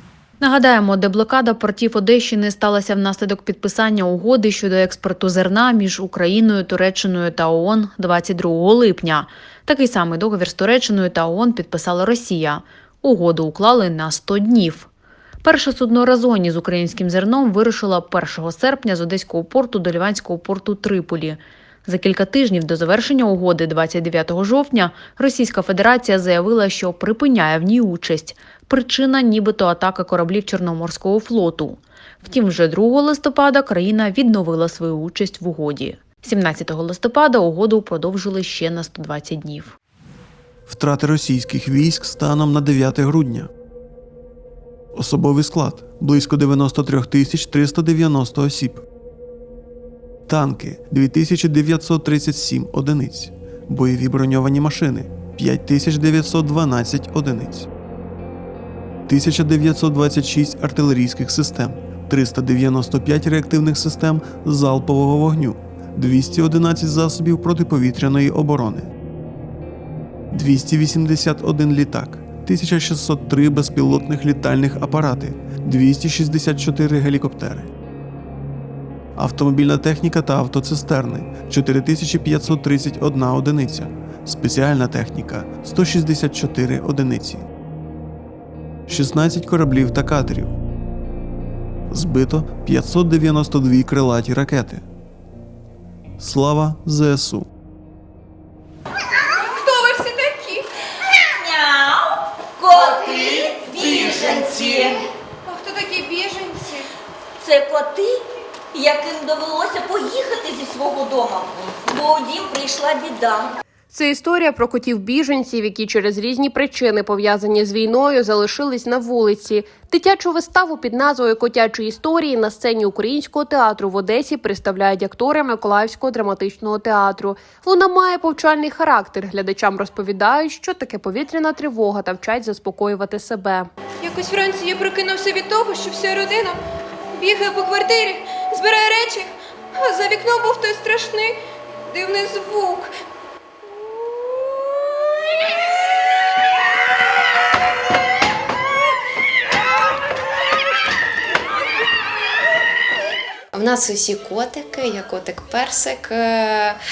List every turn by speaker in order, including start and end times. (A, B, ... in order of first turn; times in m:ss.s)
0:00.4-0:14.9 A
0:15.4-0:39.8 A
0:40.7-0:43.5 B
0:44.9-0:48.8 B
0:50.3-0:57.7 B
0:59.1-1:08.9 B
1:10.3-1:17.7 B
1:19.2-1:27.4 B
1:28.9-1:30.5 B
1:31.9-1:34.8 B
1:36.2-1:37.5 B
1:39.5-1:40.6 C
1:41.4-1:42.1 D
1:42.6-1:45.0 D
1:45.5-1:46.9 C
1:47.4-1:48.2 D
1:48.7-1:53.5 D
1:53.9-2:13.7 E
2:14.0-2:16.6 C
2:17.2-2:21.4 C
2:21.9-2:22.9 C
2:33.5-2:36.8 F